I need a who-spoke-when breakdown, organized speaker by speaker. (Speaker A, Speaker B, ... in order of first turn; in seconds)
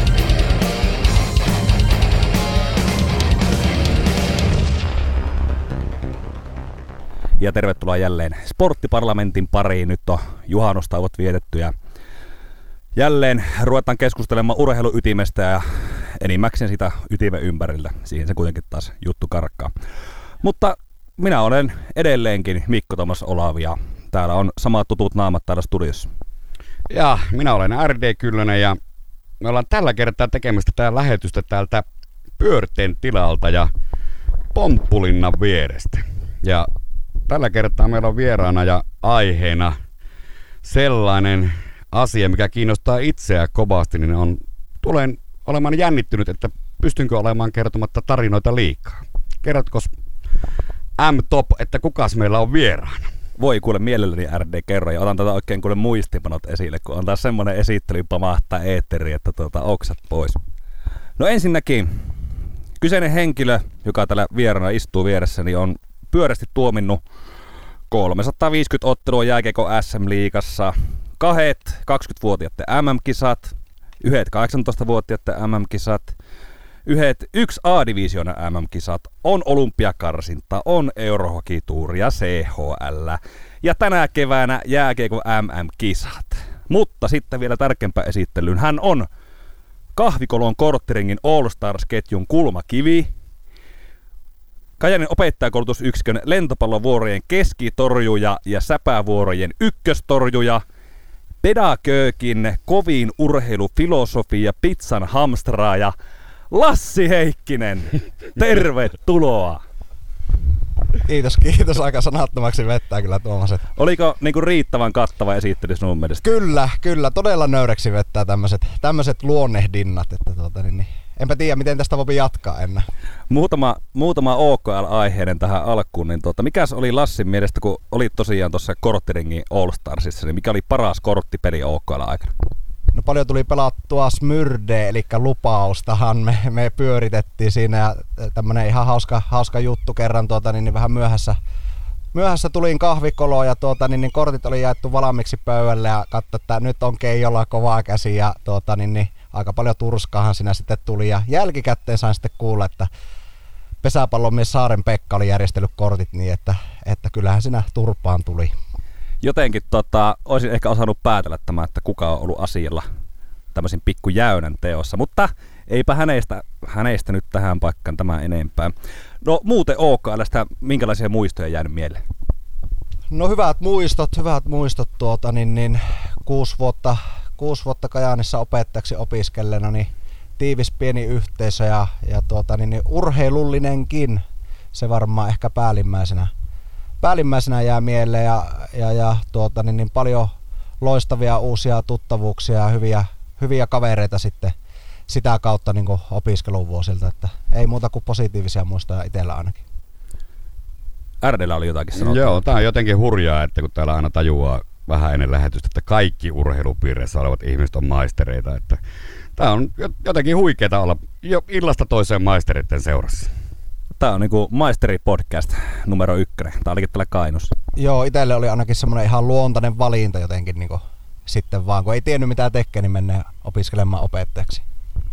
Speaker A: 7.4-11.7, 12.9-19.7, 20.4-26.1, 53.4-60.4, 61.2-61.9, 62.8-67.0, 67.9-76.1, 76.8-89.1, 89.9-93.1, 94.8-100.6, 101.4-105.9, 106.5-109.6, 113.8-116.2, 123.3-132.3, 159.2-162.8, 163.5-172.0, 201.2-202.4, 214.0-217.5
Speaker B: 26.9-28.8, 29.4-31.9, 32.4-33.7, 34.5-36.7, 37.3-39.8, 40.6-49.9, 51.0-53.1, 201.9-208.8, 209.3-213.3
Speaker C: 111.0-113.6, 116.2-122.8, 132.9-141.4, 142.1-152.9, 153.8-158.5, 173.1-184.2, 184.7-186.3, 187.0-190.3, 190.8-194.5, 195.1-199.6, 217.8-224.6